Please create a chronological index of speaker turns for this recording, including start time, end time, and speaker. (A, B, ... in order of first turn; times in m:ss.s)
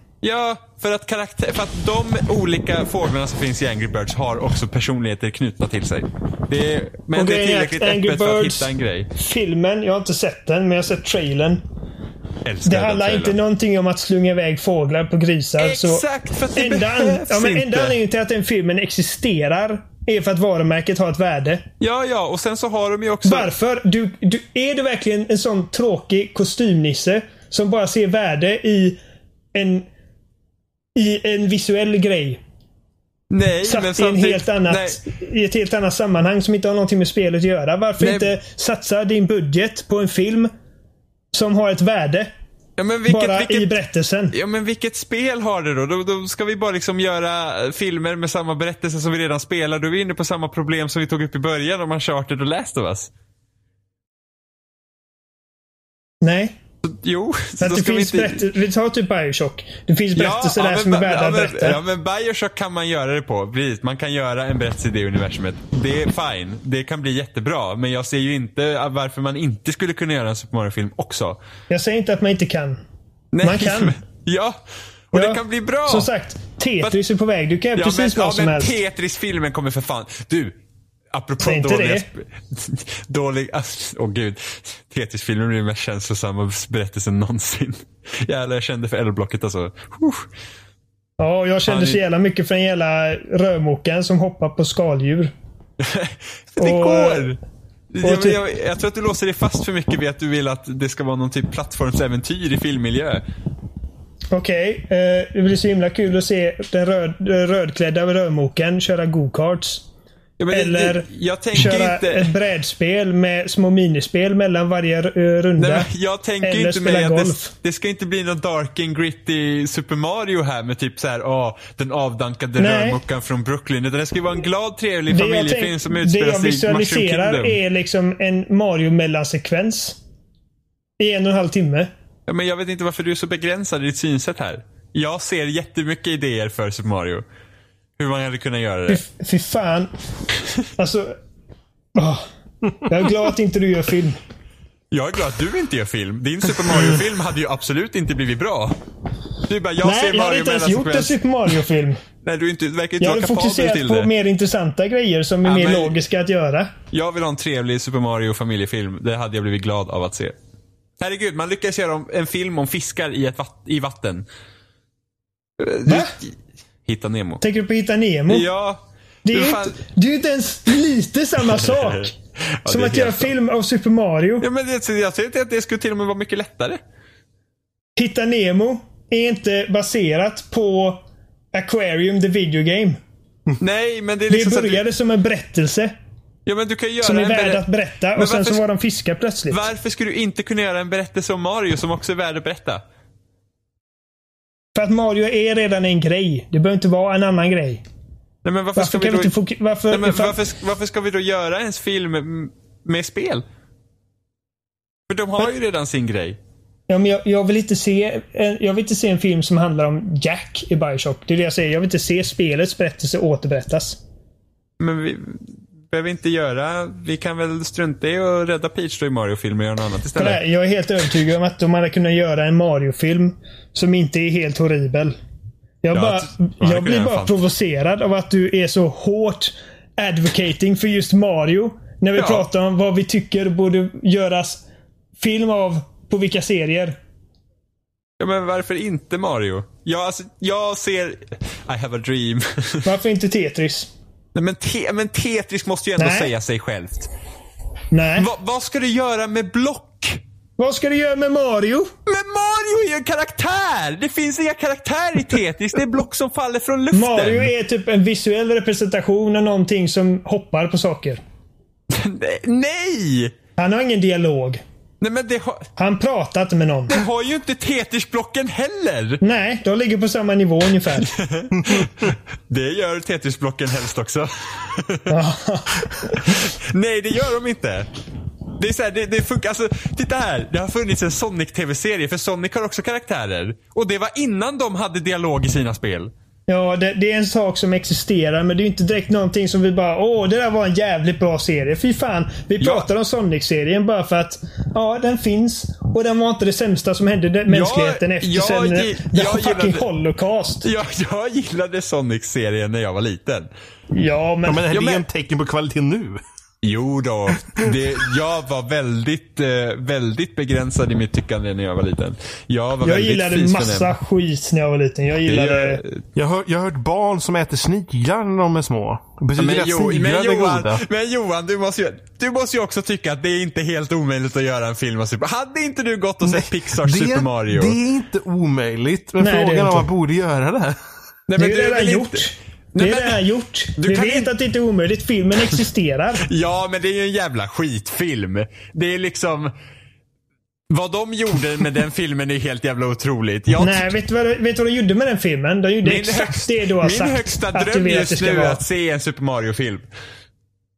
0:00.2-0:09.1 A
0:07.2-0:11.6 B
0:12.4-0:13.4 A
0:12.6-0:21.6 B
0:15.6-0:18.0 A
0:21.8-0:23.5 A
0:23.2-0:29.0 B
0:29.5-0:29.9 B
0:31.0-0:32.4 B
0:33.3-0:35.0 A
0:33.6-0:40.5 B
0:38.0-0:38.4 A
0:41.3-0:42.3 B
0:42.8-0:43.8 A
0:43.1-0:44.3 B
0:44.3-0:53.1 A
0:56.2-0:56.6 B
0:56.8-0:58.4 A
0:57.6-1:01.8 B
1:00.2-1:11.4 A
1:11.7-1:12.8 B
1:13.3-1:14.6 A
1:13.4-1:14.0 B
1:15.1-1:16.1 A
1:15.1-1:18.8 B
1:17.8-1:20.6 A
1:21.1-1:30.3 A
1:21.4-1:22.1 B
1:31.2-1:35.3 B
1:31.7-1:32.0 A
1:35.8-1:37.4 A
1:36.6-1:37.3 B
1:37.9-1:43.2 A
1:38.0-1:38.4 B
1:44.3-1:49.8 B
1:50.4-1:52.3 A
1:50.5-1:55.9 B
1:55.6-2:07.6 A
1:56.4-1:57.5 B
2:02.6-2:03.0 B
2:05.1-2:10.0 B
2:11.0-2:11.9 B
2:12.3-2:17.2 A
2:18.0-2:19.0 A
2:18.9-2:19.9 B
2:20.8-2:21.2 B
2:22.0-2:22.2 B
2:22.8-2:24.2 B
2:24.9-2:28.8 A
2:29.4-2:31.2 A
2:29.8-2:32.0 B
2:32.2-2:34.1 A
2:33.0-2:36.7 B
2:35.4-2:36.0 A
2:36.9-2:40.4 A
2:41.0-2:44.3 A
2:45.6-2:46.4 A
2:45.9-2:46.2 B
2:46.9-2:47.4 A
2:47.4-2:48.5 B
2:48.3-2:49.8 A
2:49.3-2:52.2 B
2:51.5-2:52.1 A
2:52.6-2:53.3 A
2:52.7-2:54.5 B
2:54.4-2:56.8 A
2:58.0-3:01.0 B
3:01.5-3:03.0 B
3:03.6-3:04.8 A
3:04.3-3:05.9 B
3:06.5-3:07.6 A
3:07.0-3:09.6 B
3:08.2-3:08.6 A
3:09.5-3:12.8 A
3:14.8-3:17.8 B
3:18.4-3:19.3 A
3:18.8-3:20.4 B
3:19.9-3:23.4 A
3:25.1-3:26.4 A
3:26.9-3:34.0 B
3:34.8-3:40.4 A
3:40.2-3:45.2 B
3:45.8-3:54.6 B
3:45.9-3:47.4 A
3:52.2-3:52.5 A
3:55.2-3:57.0 B
3:58.2-4:02.9 A
4:02.8-4:03.9 B
4:04.4-4:07.1 A
4:06.0-4:06.3 B
4:07.9-4:08.3 B
4:08.2-4:10.2 A
4:10.6-4:11.9 B
4:12.1-4:17.5 A
4:16.9-4:21.2 B
4:21.9-4:23.3 A
4:23.6-4:24.6 B
4:25.0-4:25.7 A
4:25.8-4:27.0 B
4:26.9-4:29.2 A
4:29.2-4:31.1 B
4:31.0-4:35.1 A
4:31.6-4:31.9 C
4:35.1-4:36.4 B
4:36.0-4:37.9 A
4:38.6-4:46.1 A
4:46.5-5:00.7 B
4:52.6-4:52.9 A
4:57.5-4:59.9 A
5:00.6-5:03.5 A
5:03.9-5:04.8 B
5:04.5-5:06.2 C
5:04.7-5:05.0 A
5:06.6-5:13.9 A
5:07.5-5:07.8 C
5:12.8-5:15.8 B
5:15.3-5:16.0 A
5:16.2-5:20.8 C
5:19.4-5:27.8 A
5:26.2-5:30.8 C
5:29.2-5:29.9 B
5:31.3-5:33.2 A
5:31.4-5:36.3 B
5:33.8-5:34.3 A
5:36.2-5:39.5 A
5:40.7-5:43.9 A
5:43.6-5:48.6 B
5:45.8-5:49.9 A